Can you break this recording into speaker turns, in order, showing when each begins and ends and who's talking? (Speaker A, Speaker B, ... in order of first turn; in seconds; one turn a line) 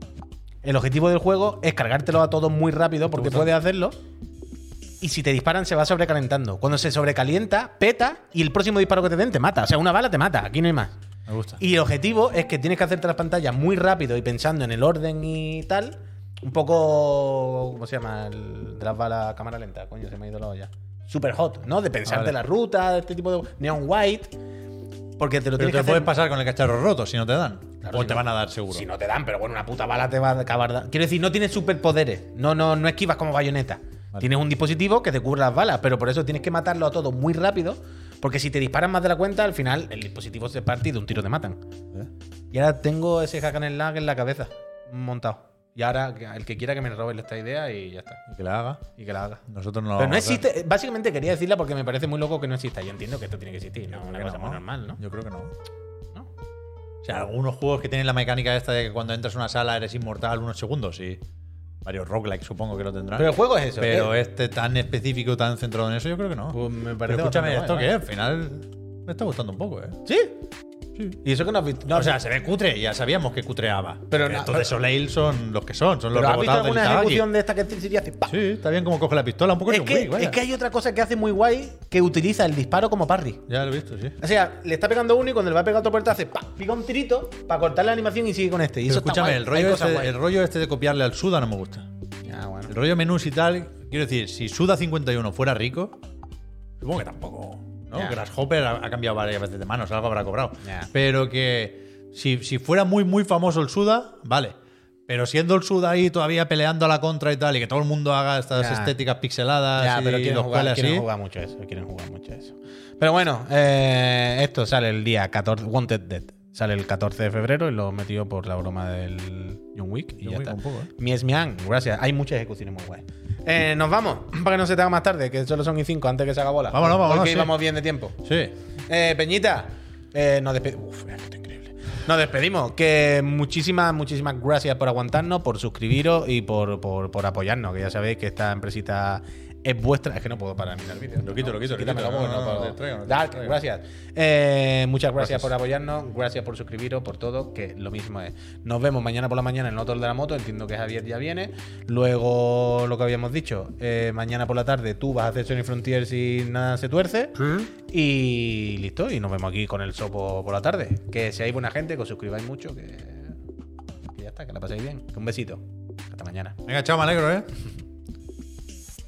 Speaker A: 0.6-4.0
Speaker B: 3.1-3.5
Speaker A: 5.0-10.9
Speaker B: 11.3-11.6
Speaker A: 11.6-24.3
Speaker B: 22.1-22.4
Speaker A: 25.2-26.1
Speaker B: 25.6-28.9
Speaker A: 27.8-41.6
Speaker A: 42.5-48.3
Speaker B: 48.3-48.9
Speaker A: 49.0-49.4
Speaker B: 49.5-50.4
Speaker A: 50.0-55.0
Speaker B: 53.9-55.5
Speaker B: 57.0-61.2
Speaker B: 61.8-70.0
Speaker A: 63.2-64.1
Speaker A: 66.5-67.9
Speaker A: 70.0-70.3
Speaker A: 71.2-72.2
Speaker B: 71.9-77.3
Speaker A: 74.1-74.7
Speaker A: 76.1-78.3
Speaker B: 78.3-80.4
Speaker A: 79.7-83.5
Speaker B: 83.5-84.2
Speaker A: 84.2-90.1
Speaker B: 88.8-91.9
Speaker A: 92.2-92.7
Speaker B: 92.7-96.0
Speaker B: 96.8-104.5
Speaker A: 100.6-100.9
Speaker B: 105.1-111.1
Speaker A: 108.5-109.0
Speaker A: 109.8-128.2
Speaker B: 120.2-120.9
Speaker B: 126.7-127.5
Speaker B: 128.2-128.5
Speaker A: 128.9-163.3
Speaker B: 141.2-143.6
Speaker B: 145.2-145.5
Speaker B: 157.4-157.7
Speaker A: 164.1-166.6
Speaker B: 166.7-167.5